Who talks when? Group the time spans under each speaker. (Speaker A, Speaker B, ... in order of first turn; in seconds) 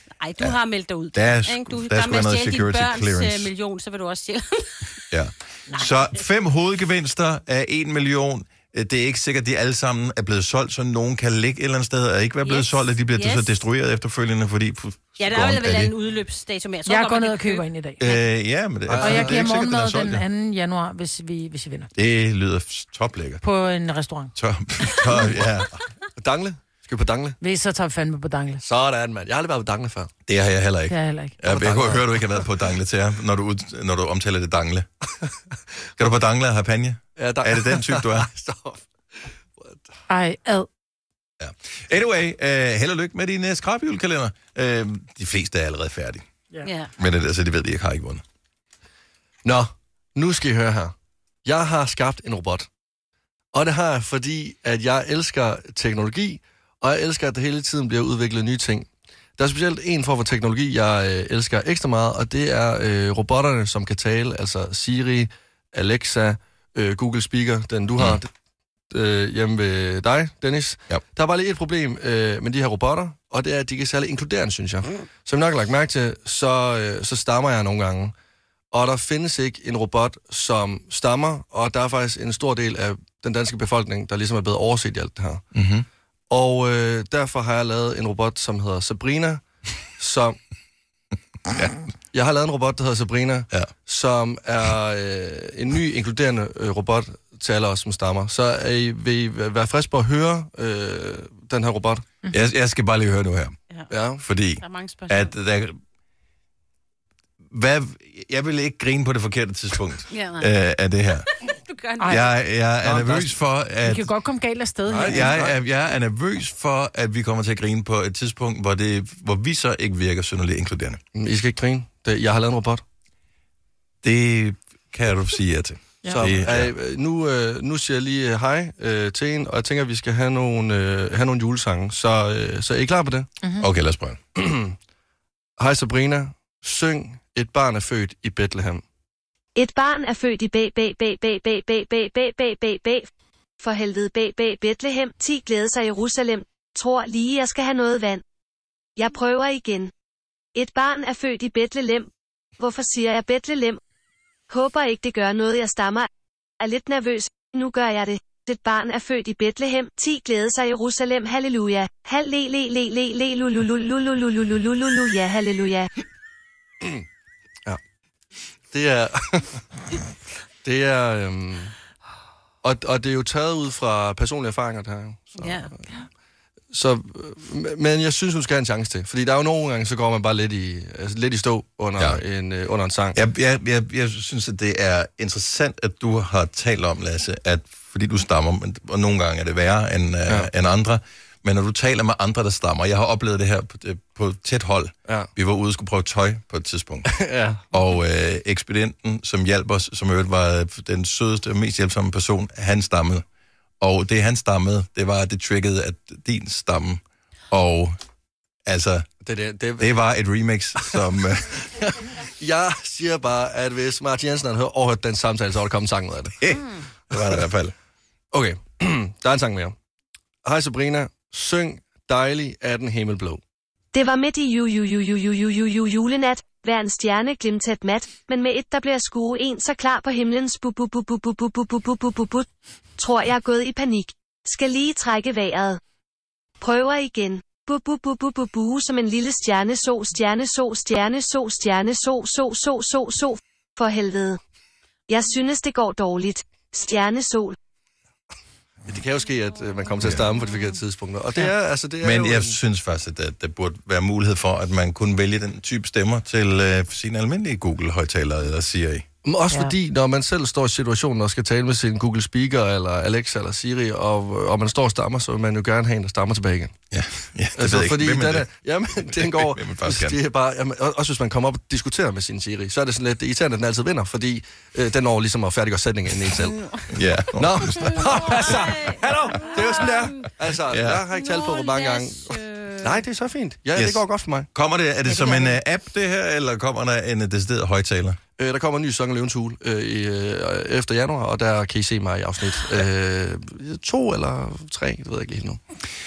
Speaker A: 0.2-5.0, 12.4-13.5, 15.2-18.2, 46.6-46.9, 104.6-105.3, 110.1-110.5, 111.3-112.2, 175.4-175.7, 216.5-216.9, 250.3-250.8, 276.5-276.9, 277.8-280.3, 281.1-283.0, 285.1-285.6
Speaker B: 1.1-3.5, 5.1-15.9, 18.0-20.2, 21.9-23.4, 24.4-25.8, 30.3-34.9, 36.0-38.3, 41.4-46.2, 47.0-48.2, 85.5-85.9, 102.3-103.5, 104.2-105.8, 107.5-111.3, 112.1-114.1, 115.0-121.0, 124.0-126.7, 133.6-134.2, 183.2-197.2, 197.7-203.2, 203.8-208.0, 208.7-209.1, 209.8-212.1, 216.4-217.7, 252.0-259.1, 266.9-270.2, 276.9-278.6, 280.7-281.0, 283.8-288.2
Speaker C: 16.9-18.0, 19.0-21.9, 23.4-24.3, 27.4-28.6, 30.9-31.4, 40.1-40.7, 112.0-112.3, 113.8-115.3
Speaker D: 18.9-19.4, 25.2-25.4, 26.2-27.4, 28.6-30.1, 31.4-32.5, 37.2-39.8, 49.4-50.9, 51.5-52.7, 53.5-68.3, 68.9-78.1, 78.7-85.4, 86.3-89.4, 90.0-90.4, 92.1-102.0, 103.9-104.2, 112.8-113.4, 114.9-115.6, 121.1-122.8, 126.1-133.3, 134.3-134.8, 135.6-138.8, 168.7-169.7, 170.6-171.8, 172.6-175.8, 176.7-183.2, 197.1-197.7, 209.2-210.0, 212.2-216.4, 218.3-219.7, 220.4-223.4, 248.9-252.6, 259.2-266.8, 267.6-276.6, 277.4-284.5, 288.4-295.6
Speaker E: 139.6-143.1, 143.6-148.2, 149.0-149.9, 150.6-153.8, 154.5-156.1, 156.6-165.9, 223.9-232.5, 233.0-235.8, 236.6-244.4, 245.1-247.6